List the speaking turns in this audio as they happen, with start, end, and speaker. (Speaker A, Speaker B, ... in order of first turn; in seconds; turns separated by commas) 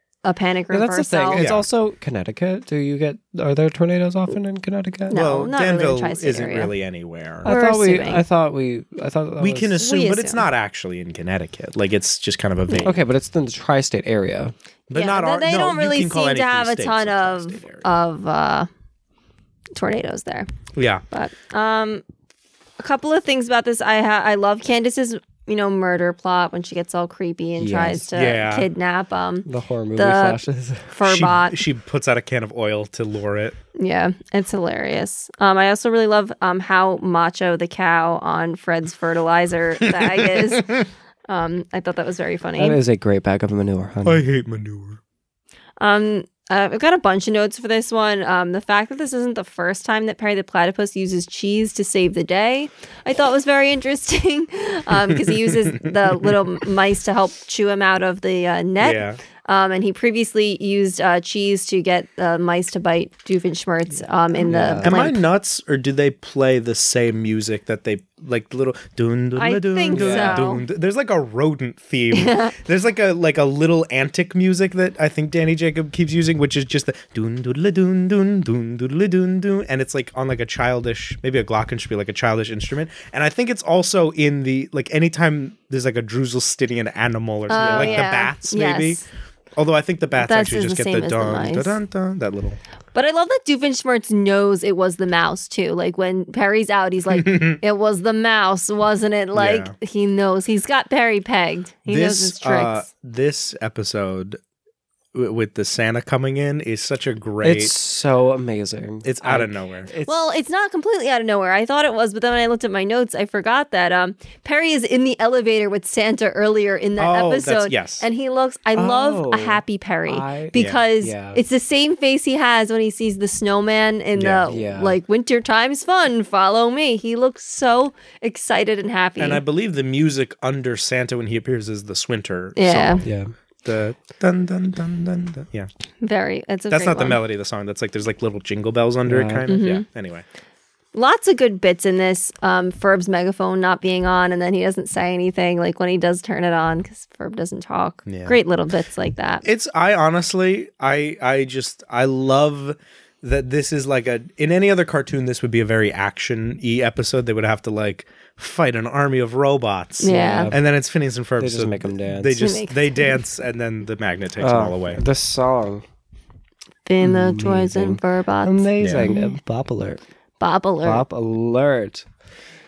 Speaker A: 0.2-1.5, Speaker B: 0.7-5.2, Speaker C: 1.3-1.7, Speaker A: 5.1-6.7, Speaker C: 5.1-7.5, Speaker B: 7.4-9.8, Speaker A: 7.4-8.2, Speaker C: 9.4-13.0, Speaker A: 9.8-10.4, Speaker B: 12.8-14.5, Speaker C: 14.9-17.9, Speaker A: 14.9-18.7, Speaker A: 19.8-20.5, Speaker C: 20.7-21.0, Speaker A: 21.1-22.0, Speaker A: 22.8-31.6, Speaker B: 27.6-28.1, Speaker C: 28.1-28.7, Speaker B: 29.4-30.9, Speaker C: 31.0-33.5, Speaker A: 33.8-42.8, Speaker C: 39.8-40.8, Speaker B: 42.6-44.2, Speaker C: 44.0-45.0, Speaker A: 45.8-65.2, Speaker C: 55.1-56.3, Speaker C: 58.8-59.2, Speaker B: 64.4-65.0, Speaker C: 64.8-89.0, Speaker A: 69.4-70.6, Speaker B: 69.9-70.5, Speaker A: 72.1-72.5, Speaker A: 87.5-89.0, Speaker B: 87.5-88.0, Speaker C: 89.5-92.6, Speaker A: 90.2-91.8, Speaker A: 92.9-102.8, Speaker C: 97.1-97.6, Speaker C: 99.3-99.7, Speaker C: 101.9-104.4, Speaker C: 105.1-107.7, Speaker B: 107.4-110.3, Speaker C: 109.0-109.9, Speaker A: 110.0-129.4, Speaker C: 117.0-118.0, Speaker B: 118.7-121.4, Speaker C: 120.5-120.8, Speaker C: 124.2-124.5, Speaker B: 124.5-125.0, Speaker C: 129.2-133.1, Speaker A: 132.6-133.0, Speaker B: 133.0-133.3, Speaker C: 133.6-135.7, Speaker A: 136.0-137.2, Speaker C: 136.7-140.2, Speaker B: 139.0-139.4, Speaker A: 139.5-139.8, Speaker A: 140.9-149.4, Speaker C: 148.1-148.4, Speaker C: 149.4-165.0, Speaker A: 160.0-160.5, Speaker B: 160.0-160.6, Speaker B: 161.4-162.5, Speaker A: 162.4-163.1, Speaker B: 164.4-165.8, Speaker A: 166.8-169.3, Speaker B: 167.0-170.0, Speaker C: 168.8-169.2, Speaker A: 170.4-171.0, Speaker B: 170.8-172.1